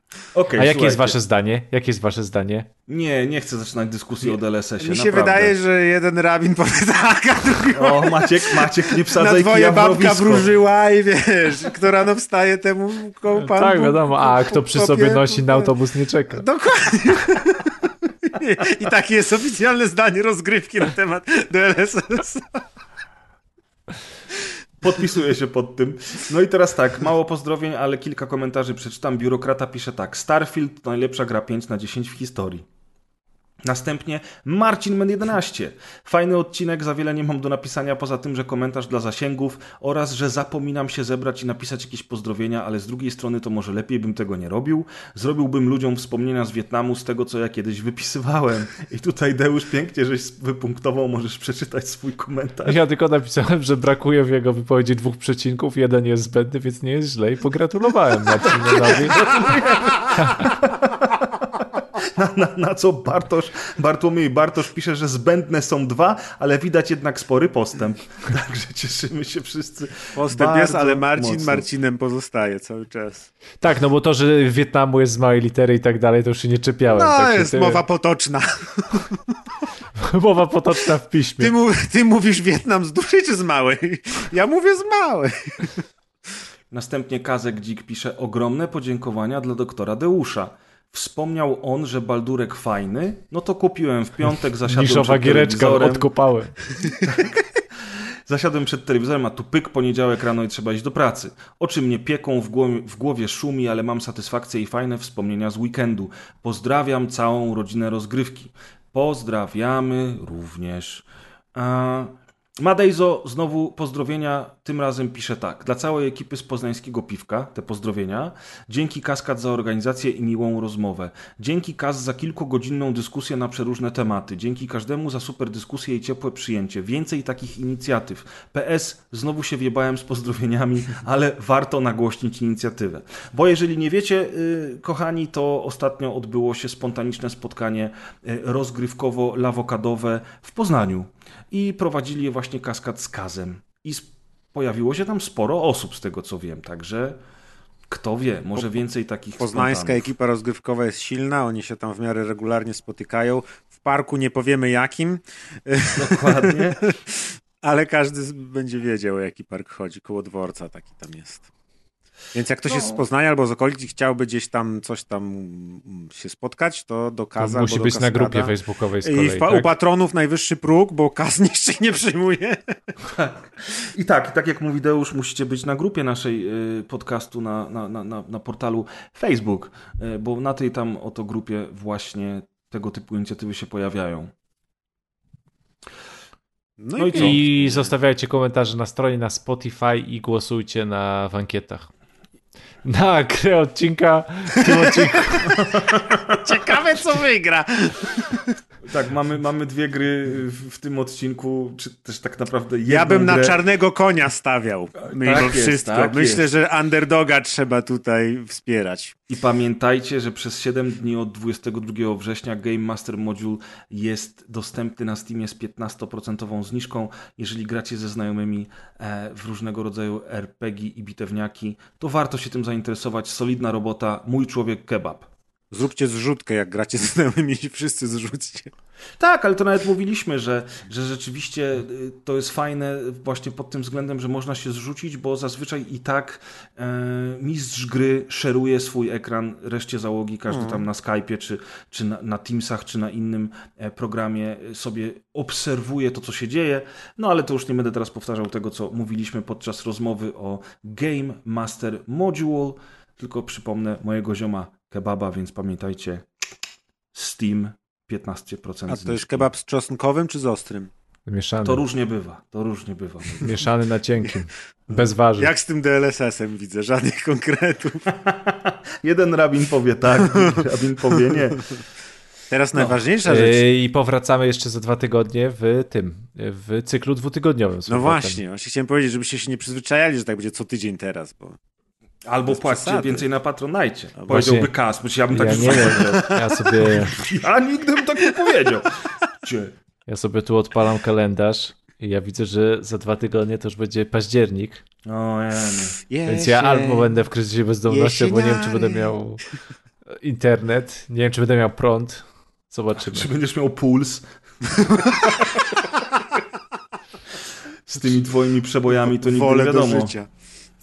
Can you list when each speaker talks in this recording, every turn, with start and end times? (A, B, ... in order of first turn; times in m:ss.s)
0:00.3-0:01.2 A
0:00.6-0:02.7 B
0:02.9-0:05.6 A
0:04.8-0:15.8 C
0:07.7-0:10.5 A
0:13.3-0:16.4 B
0:16.3-0:22.6 C
0:24.8-0:32.7 A
0:33.6-0:52.8 A
0:52.7-0:59.3 B
0:59.0-1:11.7 A
1:00.2-1:00.5 B
1:10.2-1:13.3 C
1:13.6-1:17.8 B
1:16.9-1:19.3 C
1:20.0-1:21.5 B
1:21.4-1:25.9 C
1:26.7-1:36.1 A
1:34.6-1:36.8 B
1:37.0-1:37.4 A
1:38.3-2:27.2 A
2:27.9-2:30.1 A
2:29.4-2:41.5 C
2:36.0-2:36.8 A
2:42.3-2:52.8 C
2:42.7-2:43.0 A
2:47.4-2:49.7 B
2:53.1-3:04.3 A
3:06.8-3:07.9 C
3:07.0-3:07.4 A
3:07.1-3:11.9 B
3:12.8-3:15.5 B
3:14.6-3:15.4 C
3:15.6-3:16.2 A
3:16.4-3:18.5 C
3:18.8-3:23.6 A
3:22.9-3:29.2 C
3:25.0-3:26.5 A
3:29.3-3:45.3 A
3:45.7-3:48.7 C
3:49.2-4:16.3 A
4:00.5-4:00.9 C
4:17.1-4:19.5 A
4:18.9-4:20.9 C
4:21.3-4:21.8 B
4:21.6-4:23.6 A
4:23.4-4:25.5 B
4:25.4-4:28.1 C
4:28.2-4:31.7 A
4:32.5-4:33.7 C
4:33.2-4:38.4 B
4:37.9-4:41.6 C
4:42.3-4:49.8 A
4:42.5-4:43.3 C
4:44.2-4:44.4 C
4:44.3-4:44.7 B
4:45.3-4:47.2 B
4:45.5-4:47.1 C
4:50.1-4:54.8 B
4:55.1-4:56.0 A
4:56.1-4:57.2 C
4:56.3-4:59.5 B
4:57.9-4:59.2 C
5:00.2-5:03.3 B
5:03.0-5:05.6 A
5:07.9-5:10.1 A
5:09.0-5:10.3 C